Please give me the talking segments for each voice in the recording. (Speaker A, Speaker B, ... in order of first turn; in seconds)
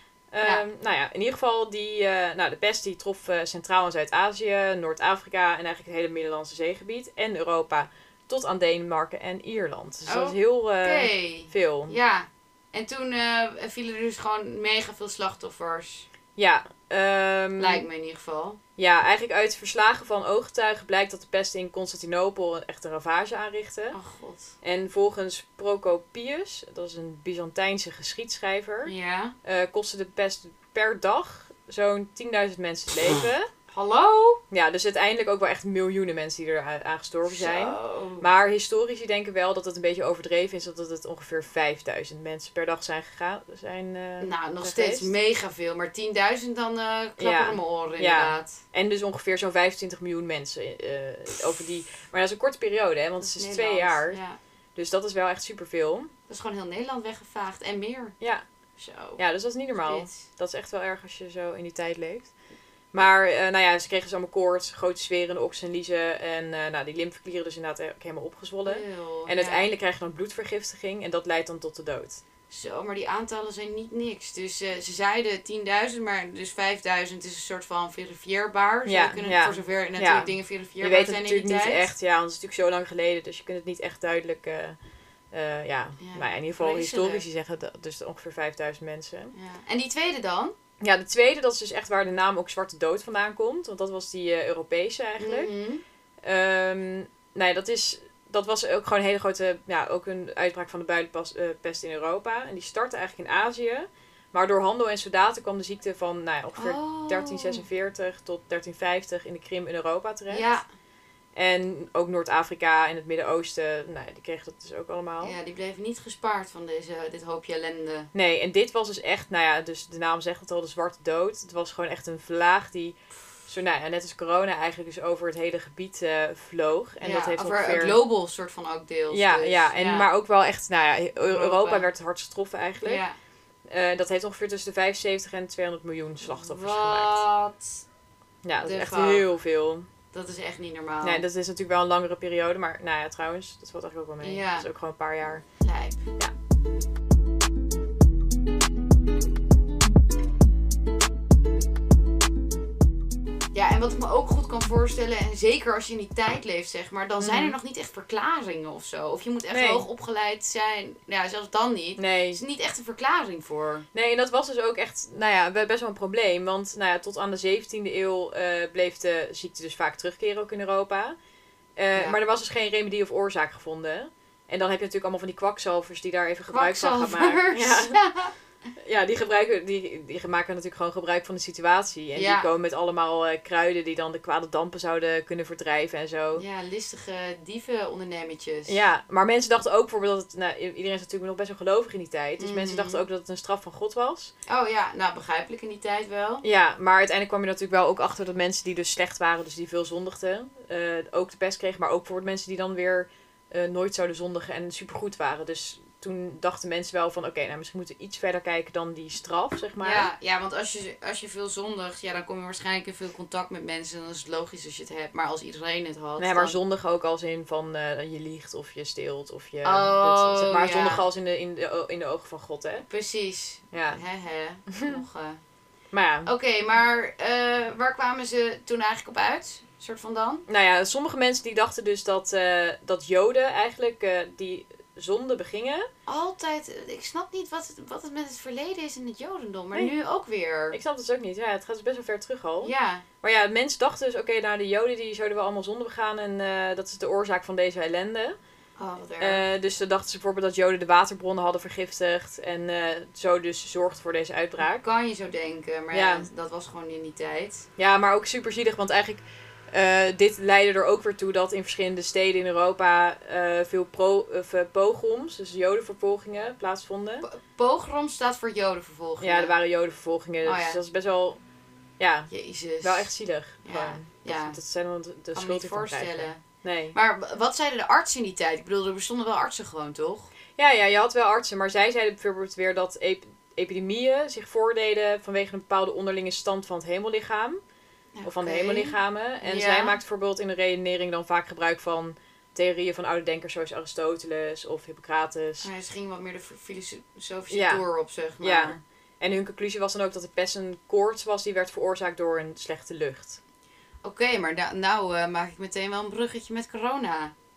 Speaker A: 0.3-12.0, 16.4-17.8, 18.8-24.0, 24.6-28.9, 29.4-33.5, 34.5-45.1, 47.2-54.2, 54.7-56.1, 58.2-58.5, 59.2-62.3, 62.9-72.2, 78.8-84.8, 85.3-89.3, 90.8-95.5, 96.2-110.5, 111.3-115.3, 118.1-123.0, 123.5-128.0, 129.1-133.0, 133.7-137.2, 138.4-139.9, 141.0-145.4, 157.2-157.6, 159.5-159.8, 162.0-162.4, 163.9-171.2, 171.8-178.0, 178.8-186.4, 188.7-194.3, 196.4-210.1, 216.2-222.8, 223.7-224.0, 224.7-225.0, 225.9-226.3, 230.5-235.9, 240.7-248.4, 249.2-254.8, 255.9-256.3, 257.8-267.2, 269.2-271.4, 272.0-272.3, 272.8-277.0, 280.6-287.6, 288.2-295.7, 297.5-297.8, 298.4-303.4
Speaker B: 10.1-16.1, 17.6-18.6, 23.9-24.5, 28.8-29.3, 33.1-34.4, 37.3-38.3, 44.2-48.6, 53.2-54.4, 56.3-58.1, 58.8-59.2, 59.8-60.2, 68.6-69.7, 72.5-81.9, 86.0-87.2, 89.3-90.5, 95.2-95.8, 106.6-107.7, 110.3-110.6, 115.2-118.1, 127.0-130.1, 131.2-131.8, 132.8-133.2, 136.2-137.8, 138.6-139.3, 140.1-141.2, 144.2-144.7, 145.6-146.1, 153.5-163.8, 171.9-172.2, 176.5-178.3, 182.1-182.5, 186.3-188.8, 192.4-193.1, 194.4-196.4, 209.8-216.6, 219.6-221.0, 222.9-225.4, 226.2-230.4, 236.1-240.8, 242.6-243.0, 248.8-249.4, 254.6-257.7, 267.2-269.5, 270.4-270.8, 272.3-273.1, 273.6-274.6, 275.3-276.4, 276.9-280.3, 288.1-290.0, 295.6-298.8, 304.0-307.3